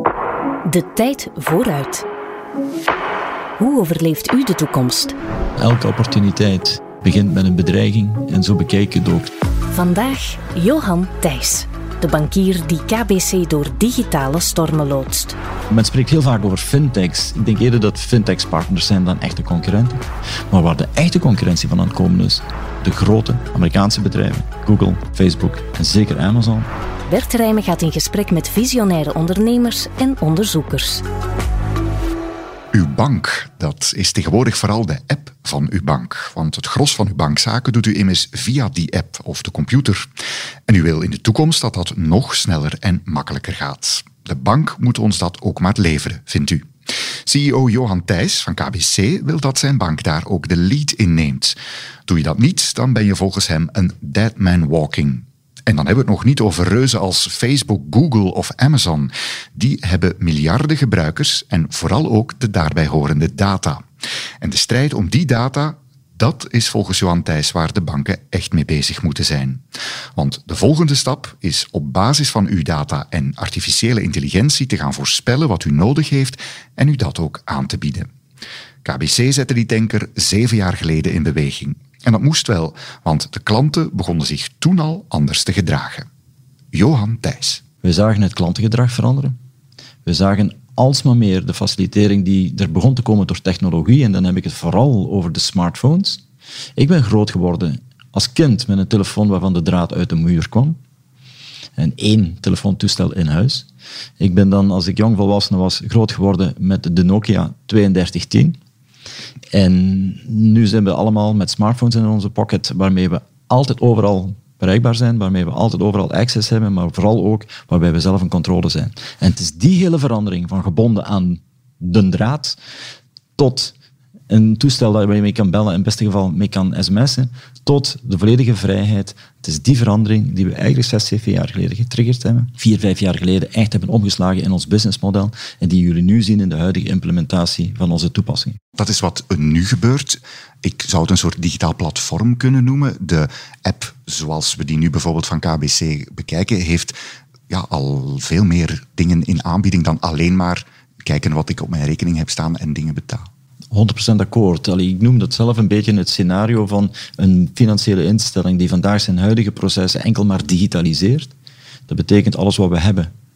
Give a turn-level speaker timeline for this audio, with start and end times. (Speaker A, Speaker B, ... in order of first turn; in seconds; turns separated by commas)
Speaker A: 0.6-2.0, Speaker A: 3.6-5.1, Speaker B: 5.6-9.3, Speaker A: 9.7-15.3, Speaker B: 15.7-26.7, Speaker A: 27.1-31.0, Speaker C: 32.7-40.1, Speaker C: 40.7-46.7, Speaker C: 47.2-51.5, Speaker C: 52.1-63.8, Speaker C: 64.4-69.6, Speaker C: 70.2-78.1, Speaker C: 78.8-86.1, Speaker C: 86.7-87.6, Speaker B: 87.8-89.3, Speaker B: 90.0-96.2, Speaker B: 96.8-100.8, Speaker B: 101.8-103.7, Speaker B: 104.2-108.6, Speaker B: 109.5-122.6, Speaker B: 123.4-123.7, Speaker B: 124.3-138.6, Speaker C: 138.7-147.0, Speaker C: 147.5-153.3, Speaker B: 153.7-161.3, Speaker B: 161.9-163.1